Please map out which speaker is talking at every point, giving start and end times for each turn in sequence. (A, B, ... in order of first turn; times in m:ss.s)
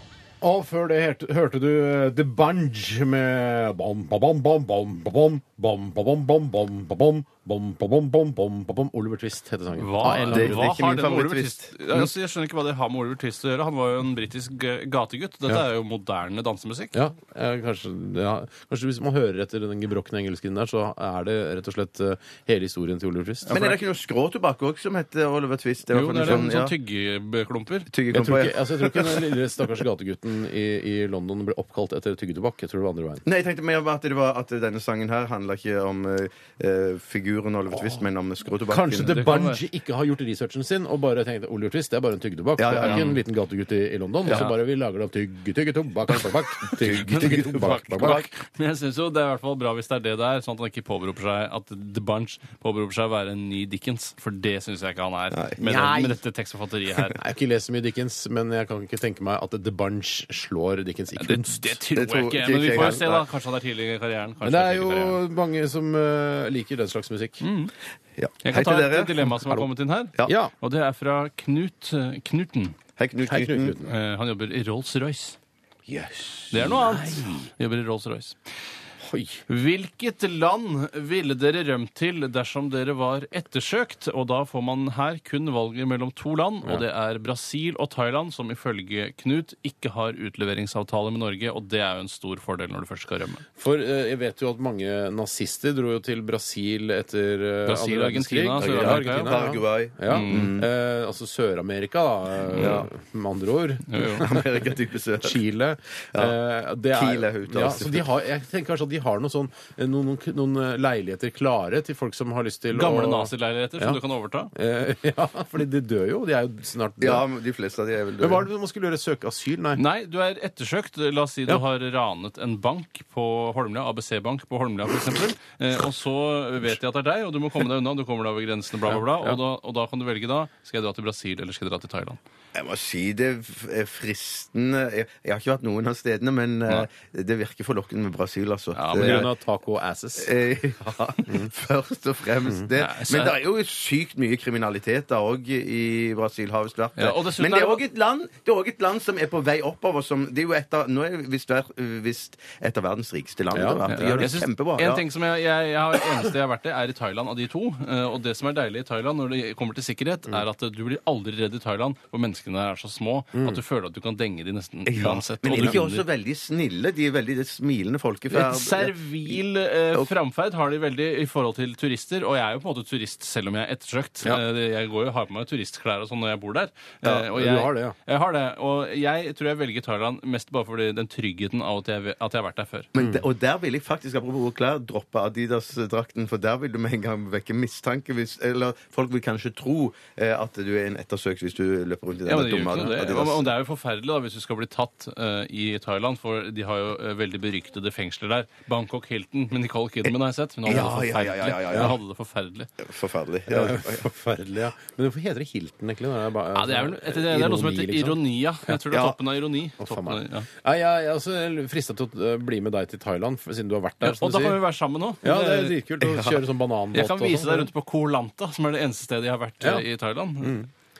0:00.4-0:10.7 A
0:09.8-0:17.0 B
0:10.3-0:12.1 C
0:16.9-0:23.6 A
0:23.5-0:23.8 B
0:23.5-0:26.7 C
0:25.9-0:27.9 B
0:26.2-0:26.5 A
0:27.9-0:29.2 C
0:28.1-0:33.2 A
0:33.2-0:39.3 C
0:37.7-0:38.0 A
0:38.7-0:48.2 A
0:39.1-0:39.6 B
0:42.6-0:43.2 C
0:42.8-0:43.1 B
0:44.3-0:44.5 B
0:46.1-0:48.3 C
0:46.9-0:57.2 B
0:55.3-0:55.6 C
0:55.6-0:56.2 A
0:57.2-1:01.8 A
1:01.2-1:05.2 B
1:01.9-1:03.2 C
1:04.4-1:07.4 A
1:07.4-1:07.7 B
1:08.2-1:09.3 C
1:08.4-1:12.8 B
1:10.2-1:10.5 A
1:13.0-1:13.8 C
1:13.2-1:13.9 A
1:13.8-1:15.4 B
1:15.9-1:16.4 C
1:16.5-1:18.4 B
1:16.5-1:17.5 A
1:19.0-1:19.4 A
1:19.5-1:33.4 B
1:33.6-1:44.4 A
1:37.6-1:39.4 B
1:38.6-1:40.7 C
1:40.1-1:40.5 B
1:42.5-1:42.8 B
1:42.6-1:42.9 C
1:43.9-1:44.3 B
1:44.2-1:45.4 C
1:45.2-1:54.0 A
1:46.9-1:48.0 C
1:52.7-1:54.5 B
1:54.5-1:57.2 A
1:57.0-1:58.4 C
1:58.2-1:59.8 A
1:59.8-2:12.2 B
2:08.8-2:09.4 A
2:12.5-2:19.2 C
2:18.7-2:19.3 B
2:19.0-2:20.3 A
2:20.2-2:35.0 C
2:22.8-2:23.4 B
2:27.0-2:27.8 B
2:33.5-2:34.4 A
2:33.9-2:46.0 B
2:43.3-2:43.6 A
2:44.8-2:49.4 C
2:45.5-2:45.8 A
2:48.3-3:02.9 B
2:57.1-2:57.9 A
3:02.9-3:13.5 C
3:03.0-3:03.2 A
3:12.3-3:22.7 B
3:20.6-3:22.0 C
3:21.7-3:22.0 A
3:22.8-3:24.0 C
3:23.5-3:28.8 A
3:26.5-3:30.5 B
3:29.8-3:34.6 A
3:34.0-3:35.8 B
3:35.2-3:37.7 A
3:36.0-3:36.4 C
3:36.9-3:40.6 B
3:40.4-3:40.7 A